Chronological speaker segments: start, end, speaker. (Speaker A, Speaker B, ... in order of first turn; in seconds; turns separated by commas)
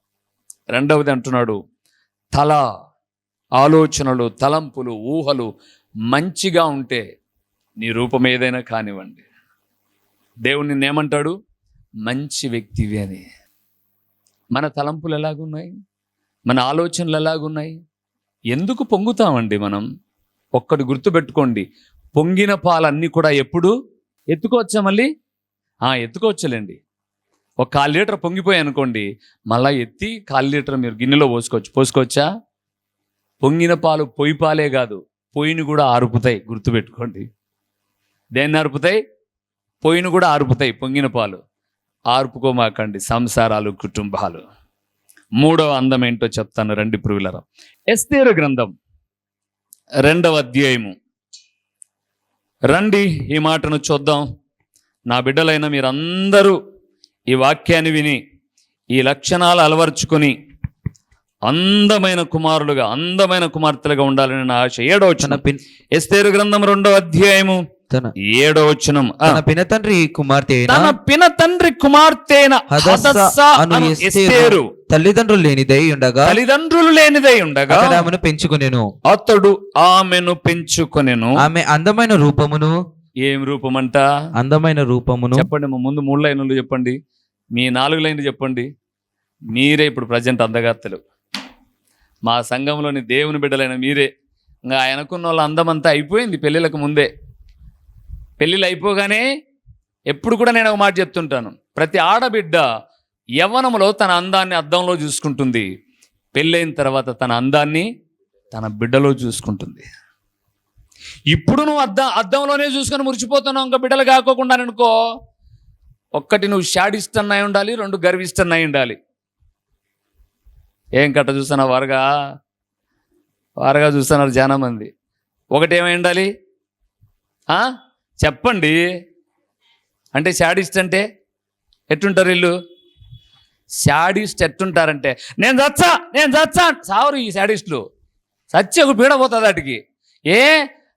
Speaker A: 0.7-1.6, Speaker A: 2.3-2.6, Speaker A: 3.6-5.5, Speaker A: 6.1-7.0, Speaker A: 7.8-9.2, Speaker A: 10.4-11.3, Speaker A: 12.0-13.2, Speaker A: 14.5-15.7, Speaker A: 16.5-17.7, Speaker A: 18.5-19.9, Speaker A: 20.6-23.7, Speaker A: 24.3-25.1, Speaker A: 25.9-26.8, Speaker A: 27.6-32.2, Speaker A: 33.4-37.2, Speaker A: 38.4-39.0, Speaker A: 39.8-41.4, Speaker A: 42.1-44.4, Speaker A: 45.4-48.7, Speaker A: 50.0-50.9, Speaker A: 52.7-54.2, Speaker A: 55.1-56.6, Speaker A: 57.3-58.2, Speaker A: 58.9-60.3, Speaker A: 61.5-65.4, Speaker B: 65.2-65.6, Speaker A: 65.9-67.6, Speaker A: 68.3-69.4, Speaker B: 69.2-70.9, Speaker A: 70.7-74.7, Speaker B: 72.7-76.4, Speaker A: 76.2-78.0, Speaker B: 77.7-78.9, Speaker A: 79.1-81.4, Speaker B: 81.4-82.7, Speaker A: 83.2-84.0, Speaker B: 84.4-85.5, Speaker A: 85.3-87.0, Speaker A: 87.5-88.7, Speaker A: 89.5-91.0, Speaker A: 92.2-94.1, Speaker A: 94.7-97.1, Speaker A: 98.4-99.2, Speaker A: 100.1-102.7, Speaker A: 103.4-105.7, Speaker A: 106.3-107.9, Speaker A: 108.5-109.8, Speaker A: 111.3-114.9, Speaker A: 116.2-119.0, Speaker A: 121.0-122.0, Speaker A: 123.6-124.9, Speaker A: 125.5-126.3, Speaker A: 128.2-128.8, Speaker A: 130.1-131.0, Speaker A: 131.9-132.5, Speaker A: 133.8-137.8, Speaker A: 138.5-140.5